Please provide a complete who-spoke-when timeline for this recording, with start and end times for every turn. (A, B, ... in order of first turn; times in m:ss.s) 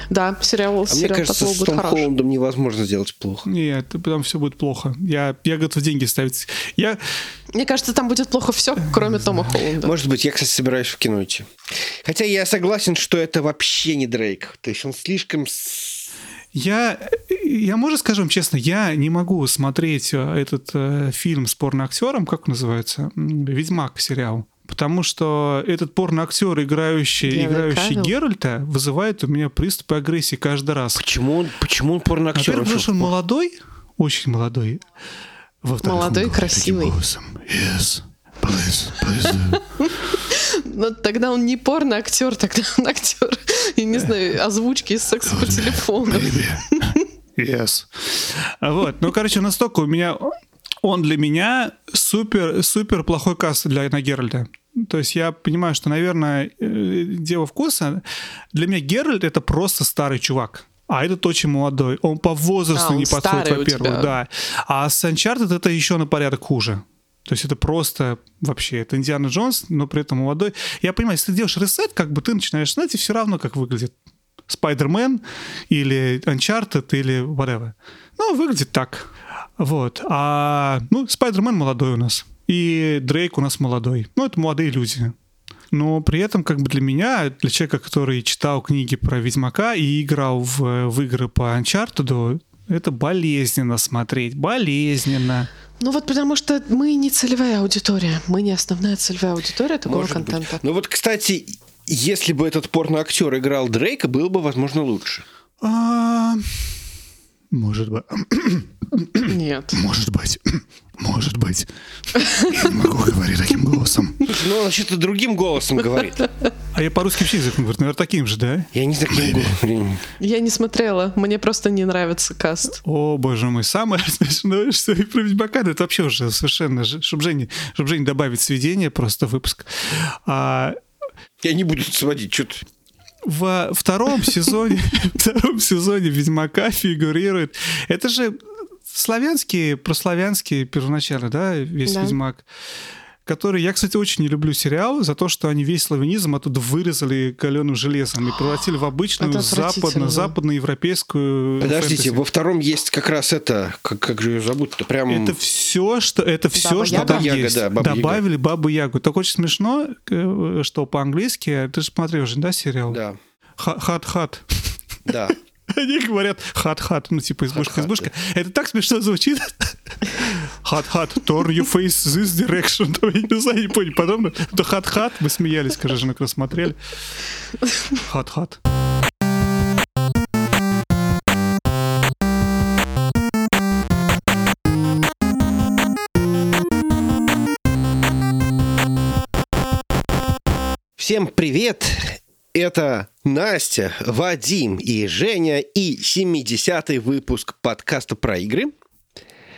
0:00.1-0:02.1 A
0:00.9-0:03.5 B
0:03.4-0:07.0 C
0:07.5-0:09.9 A
0:08.9-0:09.5 C
0:09.8-0:16.1 B
0:16.5-0:31.0 C
0:27.3-0:28.1 A
0:31.0-0:33.1 B
0:32.4-0:34.8 C
0:35.6-0:39.6 C
0:35.8-0:37.0 A
0:39.3-0:47.0 A
0:45.4-1:14.0 C
1:02.8-1:04.2 A
1:14.5-1:25.1 C
1:25.7-1:35.5 C
1:35.8-1:40.6 A
1:39.9-1:45.2 B
1:45.6-1:46.8 C
1:47.5-1:51.7 C
1:49.3-1:49.8 A
1:52.2-1:52.5 A
1:52.4-1:54.3 C
1:54.3-1:56.3 B
1:56.7-1:59.4 C
1:58.7-2:00.0 B
2:00.2-2:02.8 A
2:02.8-2:10.8 C
2:11.4-2:12.6 B
2:13.3-2:22.5 C
2:21.9-2:22.2 A
2:23.2-2:32.2 C
2:29.2-2:30.3 A
2:31.6-2:35.4 B
2:35.1-2:43.0 C
2:36.6-2:37.3 A
2:36.9-2:38.2 B
2:42.9-2:43.2 B
2:43.6-2:56.8 C
2:45.1-2:45.4 B
2:47.5-2:48.1 B
2:58.0-2:58.6 C
3:11.0-3:18.7 B